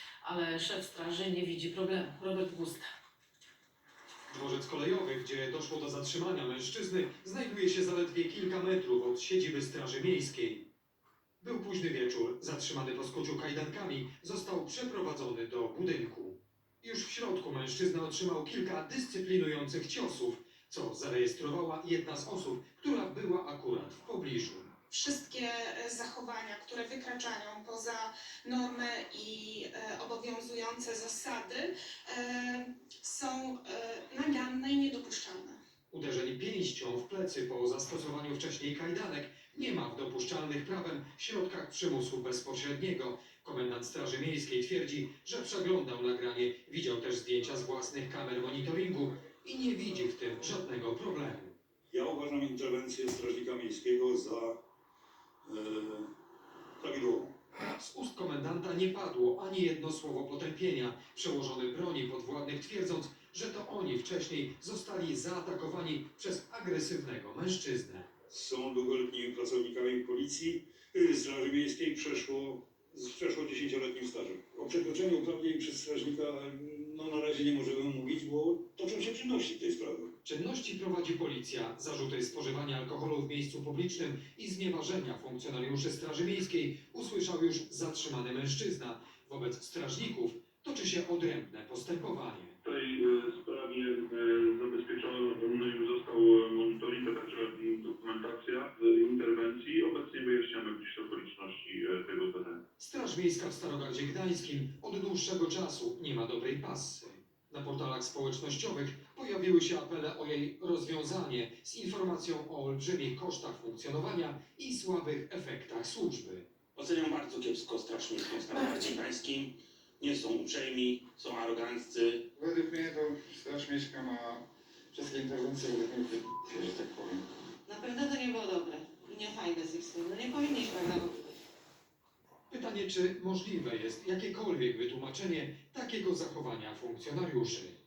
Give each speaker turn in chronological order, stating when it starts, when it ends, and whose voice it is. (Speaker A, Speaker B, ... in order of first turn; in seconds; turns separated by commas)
Speaker A: 0.2-2.9, Speaker B: 4.3-10.7, Speaker B: 11.4-24.7, Speaker C: 24.9-35.6, Speaker B: 35.9-51.5, Speaker D: 51.9-54.6, Speaker D: 55.5-56.1, Speaker D: 56.8-57.3, Speaker B: 57.7-68.1, Speaker D: 68.3-80.1, Speaker B: 80.2-92.5, Speaker E: 92.6-102.6, Speaker B: 102.8-116.5, Speaker F: 116.8-122.2, Speaker G: 122.4-127.2, Speaker H: 127.7-131.1, Speaker B: 132.5-137.8